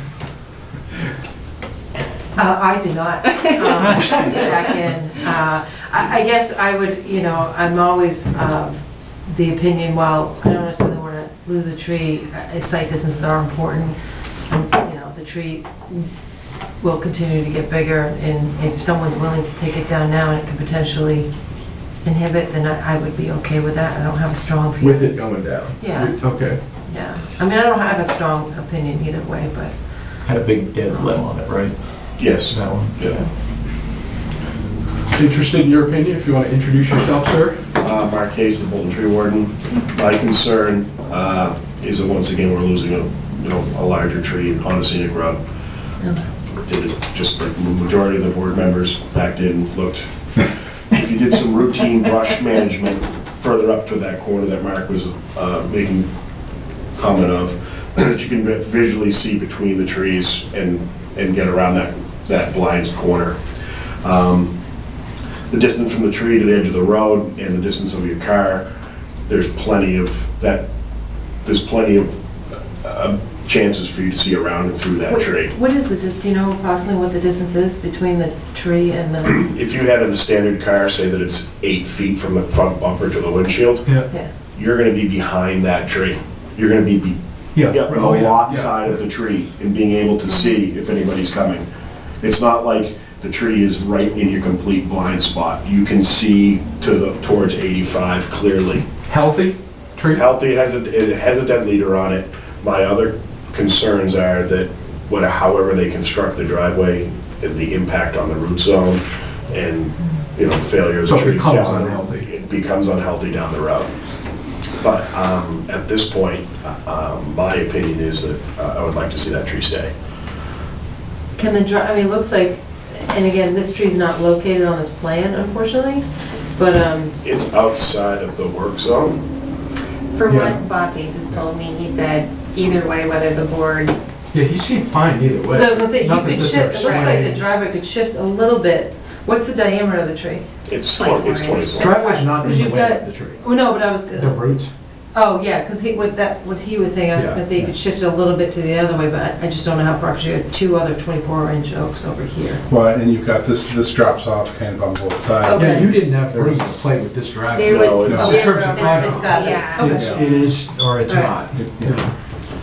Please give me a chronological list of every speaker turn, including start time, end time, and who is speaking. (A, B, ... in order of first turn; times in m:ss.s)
0:02.4-0:14.0 A
0:04.0-0:04.4 B
0:14.5-0:16.1 A
0:16.8-0:21.3 A
0:22.0-0:26.3 A
0:24.8-0:26.6 C
0:26.9-0:29.7 A
0:30.2-0:33.3 D
0:32.2-0:33.2 E
0:35.1-0:37.6 C
0:37.8-0:45.4 E
0:46.0-0:46.3 A
0:46.6-0:56.1 E
0:57.0-1:04.5 E
1:05.5-1:08.6 E
1:09.3-1:10.6 E
1:11.4-1:15.5 E
1:15.1-1:19.5 A
1:19.3-1:24.0 E
1:23.8-1:24.1 C
1:24.1-1:24.3 A
1:24.5-1:31.6 E
1:27.6-1:28.8 C
1:32.2-1:38.9 E
1:39.1-1:40.3 C
1:40.1-1:53.9 E
1:51.0-1:52.3 C
1:54.8-1:59.9 E
2:01.4-2:07.2 A
2:07.2-2:09.2 E
2:10.1-2:14.0 F
2:10.3-2:10.6 C
2:14.3-2:17.4 C
2:15.5-2:20.5 A
2:16.8-2:17.2 F
2:20.7-2:22.0 E
2:20.9-2:22.2 F
2:21.8-2:24.7 C
2:22.0-2:24.4 A
2:25.1-2:32.6 A
2:27.1-2:27.4 C
2:32.7-2:36.0 B
2:35.5-2:36.0 A
2:35.6-2:42.1 C
2:36.3-2:36.9 D
2:37.6-2:38.5 E
2:37.6-2:40.2 A
2:37.7-2:40.3 F
2:38.0-2:38.4 B
2:40.0-2:40.2 B
2:41.1-2:41.4 A
2:41.5-2:42.1 B